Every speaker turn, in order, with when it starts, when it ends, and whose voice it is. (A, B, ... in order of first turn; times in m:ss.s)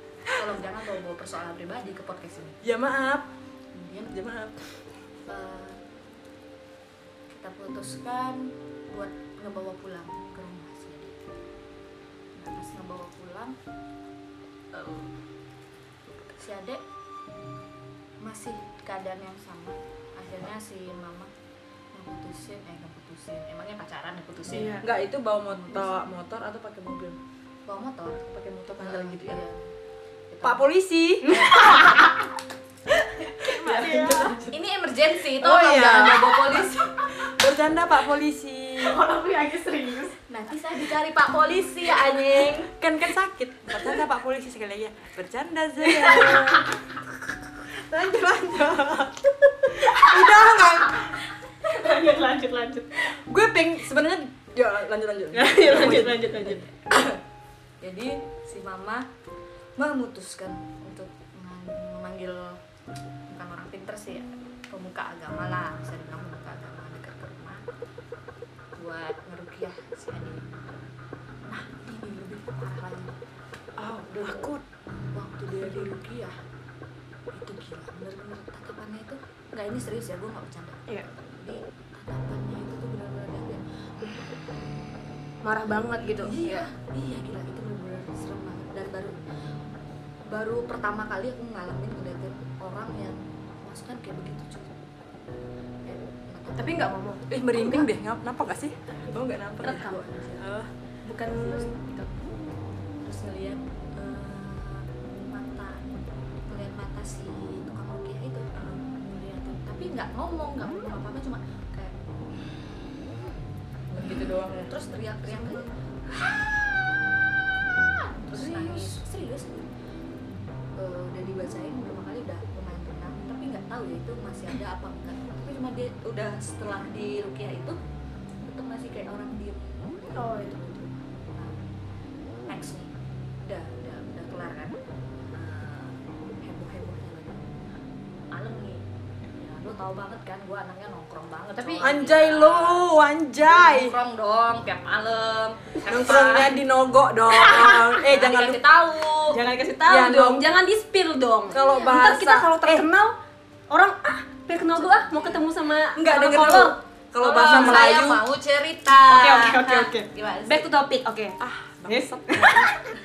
0:00.3-0:02.6 A
0:02.6-0:03.3 B
0:03.7-0:04.1 A
0:04.1-0:04.7 B
0:05.3-0:05.8 A
0:07.3-0:11.1 A
0:12.4-0:13.6 A
0:14.7-0:15.1 A
0:16.4-0:16.8 A
0:18.2-0:21.3 A
0:21.9-0:24.8 A
0:24.5-0:24.8 C
0:24.8-0:27.2 B
0:25.5-0:26.0 A
0:27.6-0:29.7 A
0:28.3-0:29.4 B
0:30.3-0:30.7 A
0:30.4-0:31.8 B
0:31.2-0:32.2 C
0:31.3-0:32.1 A
0:33.2-0:34.6 B
0:33.3-0:34.4 C
0:34.5-0:36.9 A
0:35.4-0:36.7 C
0:35.4-0:39.0 B
0:38.8-0:40.2 C
0:40.3-0:42.7 A
0:42.7-0:51.2 B
0:45.9-0:46.6 C
0:51.6-0:53.0 C
0:53.1-0:56.6 B
0:55.3-0:56.6 C
0:56.4-0:57.2 A
0:57.8-0:59.1 A
0:59.8-1:02.6 A
1:03.3-1:07.6 A
1:08.8-1:10.8 A
1:11.4-1:13.2 A
1:13.8-1:14.6 B
1:15.1-1:16.4 A
1:17.3-1:24.5 A
1:25.4-1:26.6 C
1:26.1-1:29.2 A
1:30.3-1:34.7 A
1:35.8-1:37.0 A
1:36.6-1:37.2 C
1:37.3-1:40.7 B
1:37.5-1:37.9 A
1:39.6-1:40.0 C
1:39.6-1:40.5 A
1:41.0-1:42.0 C
1:41.2-1:42.2 A
1:43.0-1:51.9 A
1:48.5-1:48.8 B
1:53.9-1:55.7 B
1:53.9-1:56.7 A
1:57.8-1:59.7 A
1:58.3-1:59.0 C
2:00.8-2:07.8 A
2:08.4-2:11.7 A
2:10.1-2:10.6 C
2:12.5-2:14.8 A
2:15.3-2:17.4 A
2:18.3-2:22.8 A
2:21.6-2:21.9 C
2:21.8-2:24.0 B
2:23.5-2:26.5 A
2:25.8-2:28.7 B
2:27.4-2:29.4 A
2:27.6-2:27.9 C
2:29.3-2:33.1 C
2:29.8-2:30.5 B
2:31.5-2:32.9 B
2:33.7-2:36.8 C
2:34.5-2:35.4 A
2:35.9-2:38.2 B
2:37.2-2:40.7 A
2:37.3-2:38.0 C
2:39.1-2:42.9 C
2:41.4-2:42.7 B